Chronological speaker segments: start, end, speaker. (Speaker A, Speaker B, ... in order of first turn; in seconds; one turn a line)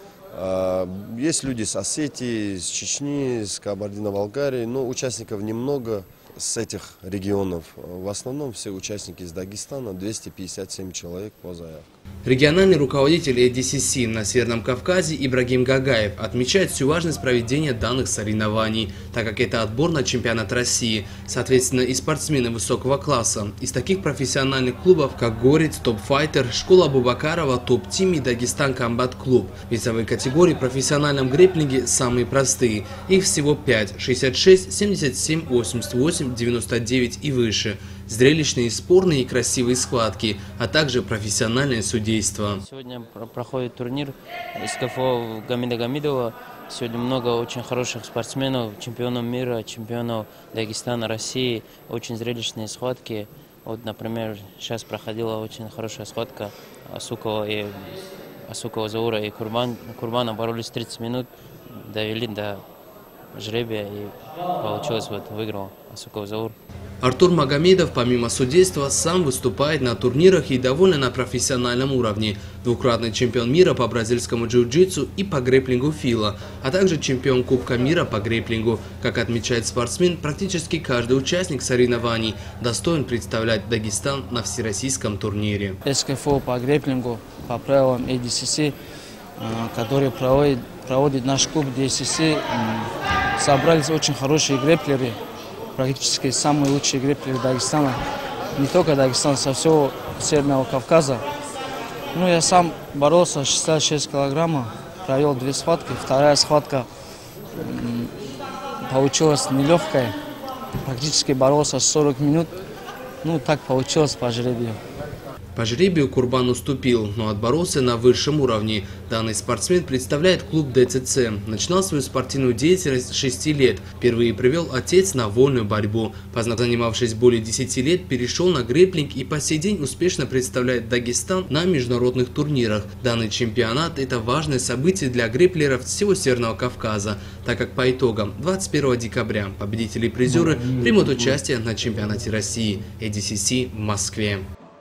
Speaker A: 0.3-11.9
Speaker B: 12.2-42.6
Speaker C: 42.6-62.6
Speaker C: 63.3-66.6
Speaker B: 67.0-85.8
Speaker D: 85.8-88.8
Speaker D: 89.4-95.2
Speaker D: 95.8-98.0
Speaker D: 98.6-101.2
Speaker D: 102.1-106.9
Speaker D: 107.6-108.1
Speaker D: 108.8-110.1
Speaker D: 110.8-112.6
Speaker D: 113.2-114.8
Speaker B: 115.6-144.5